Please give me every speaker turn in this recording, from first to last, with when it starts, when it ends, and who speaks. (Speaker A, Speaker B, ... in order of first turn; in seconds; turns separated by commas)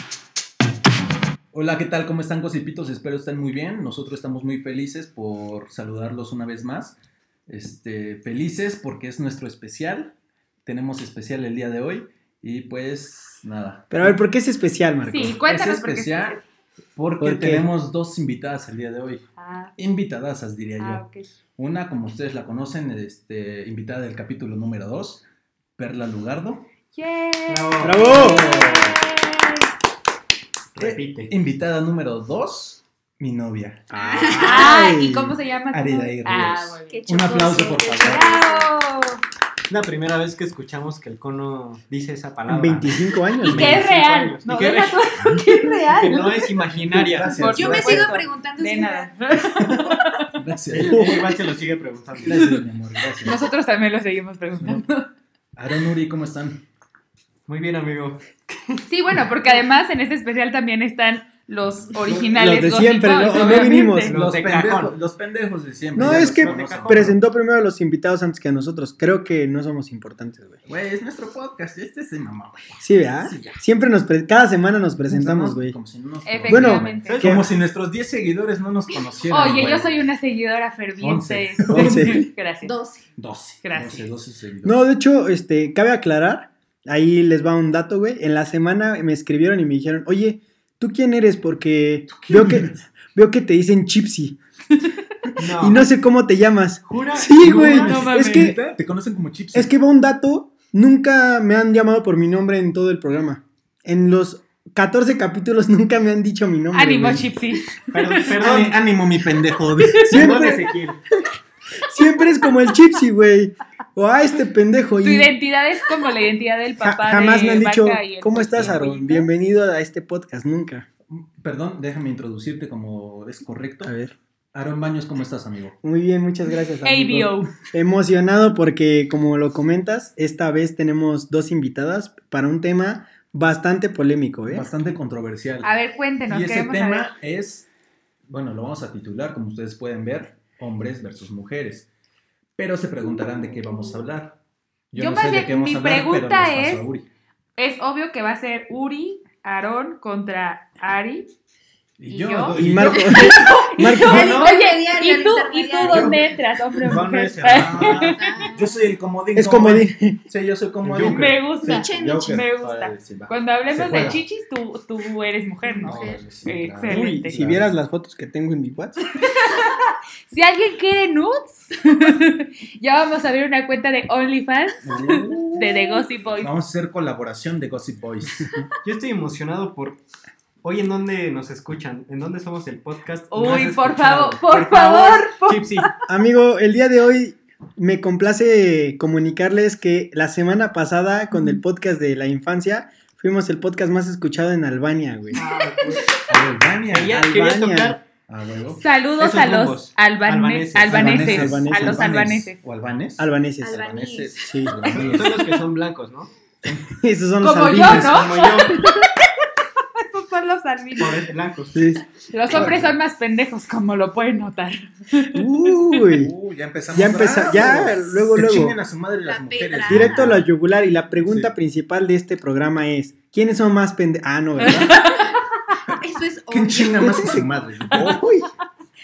Speaker A: 1.5-7.0, Speaker A: 7.5-14.2, Speaker B: 13.9-15.3, Speaker C: 15.1-16.4, Speaker A: 15.1-16.4, Speaker A: 16.9-19.2, Speaker B: 17.2-17.7, Speaker C: 19.4-19.7, Speaker A: 19.8-21.0, Speaker C: 20.8-21.3, Speaker A: 21.6-25.3, Speaker A: 25.8-26.7, Speaker C: 26.9-29.7, Speaker D: 27.5-28.5, Speaker B: 27.8-28.5, Speaker A: 28.0-29.0, Speaker D: 30.7-31.3, Speaker A: 30.8-33.9, Speaker B: 33.9-35.3, Speaker C: 34.0-37.0, Speaker E: 34.1-34.7, Speaker A: 35.7-38.4, Speaker E: 36.9-38.7, Speaker C: 38.0-39.2, Speaker D: 39.7-45.1, Speaker B: 42.5-43.8, Speaker C: 43.4-46.4, Speaker A: 45.2-45.5, Speaker D: 46.0-47.4, Speaker A: 46.9-48.2, Speaker C: 47.3-50.4, Speaker E: 47.5-49.1, Speaker A: 49.4-51.1, Speaker D: 50.7-52.5, Speaker B: 50.8-51.3, Speaker A: 52.2-53.5, Speaker C: 53.2-55.1, Speaker A: 55.6-56.6, Speaker D: 57.5-58.8, Speaker C: 58.9-64.1, Speaker B: 62.3-64.2, Speaker D: 63.2-65.0, Speaker A: 64.0-67.2, Speaker D: 65.9-67.1, Speaker B: 66.0-70.6, Speaker A: 70.7-72.8, Speaker B: 72.8-75.8, Speaker D: 73.3-73.6, Speaker A: 75.0-80.1, Speaker C: 76.2-77.2, Speaker B: 76.5-77.5, Speaker D: 77.0-77.5, Speaker C: 79.3-82.7, Speaker A: 81.0-82.2, Speaker B: 81.7-82.3, Speaker E: 82.6-83.1, Speaker A: 83.2-84.8, Speaker C: 83.6-84.1, Speaker B: 84.6-94.4, Speaker A: 92.1-92.8, Speaker D: 95.4-95.9, Speaker B: 95.6-98.6, Speaker D: 96.9-98.1, Speaker C: 97.4-98.6, Speaker A: 97.5-99.7, Speaker B: 99.5-107.2, Speaker C: 106.7-108.3, Speaker D: 107.9-108.8, Speaker A: 108.4-110.5, Speaker D: 109.9-111.0, Speaker B: 110.1-110.7, Speaker B: 111.9-115.3, Speaker C: 115.0-119.3, Speaker B: 116.8-120.9, Speaker A: 121.1-123.9, Speaker B: 123.8-124.2, Speaker A: 124.5-125.8, Speaker B: 125.8-134.7, Speaker C: 126.8-127.5, Speaker A: 134.5-135.7, Speaker C: 135.6-137.1, Speaker A: 136.3-137.7, Speaker A: 138.3-141.9, Speaker A: 142.6-144.4, Speaker A: 144.9-147.1, Speaker C: 144.9-146.9, Speaker C: 147.6-151.3, Speaker A: 152.0-153.5, Speaker C: 152.1-158.3, Speaker B: 152.6-154.4, Speaker E: 153.9-156.2, Speaker D: 154.2-154.5, Speaker A: 155.9-156.3, Speaker D: 156.8-158.5, Speaker A: 156.8-164.2, Speaker E: 158.0-158.9, Speaker B: 159.3-160.2, Speaker D: 160.8-161.3, Speaker C: 161.0-167.3, Speaker E: 161.6-162.4, Speaker A: 165.8-167.7, Speaker D: 166.9-167.3, Speaker B: 166.9-169.0, Speaker C: 169.2-176.5, Speaker A: 174.8-178.5, Speaker D: 178.8-180.0, Speaker D: 180.6-185.9, Speaker C: 183.3-185.9, Speaker B: 186.1-195.4, Speaker D: 195.3-196.2, Speaker E: 195.3-196.2, Speaker A: 196.3-197.3, Speaker D: 196.9-198.0, Speaker B: 197.2-198.0, Speaker A: 198.2-198.9, Speaker C: 198.7-202.6, Speaker D: 199.2-201.2, Speaker A: 200.9-205.5, Speaker B: 200.9-202.1, Speaker B: 203.2-204.9, Speaker E: 203.6-204.9, Speaker D: 204.9-206.3, Speaker B: 206.7-208.3, Speaker C: 207.4-209.1, Speaker D: 207.9-208.8, Speaker C: 210.0-211.2, Speaker D: 211.0-211.9, Speaker B: 211.8-212.0, Speaker C: 212.3-215.4, Speaker A: 212.5-213.0, Speaker B: 215.3-216.3, Speaker A: 216.1-220.4, Speaker B: 216.9-218.8, Speaker E: 219.2-220.4, Speaker B: 219.9-225.0, Speaker A: 221.2-221.5, Speaker C: 224.6-225.4, Speaker E: 226.0-227.3, Speaker A: 226.5-228.4, Speaker B: 227.0-227.4, Speaker C: 227.9-228.4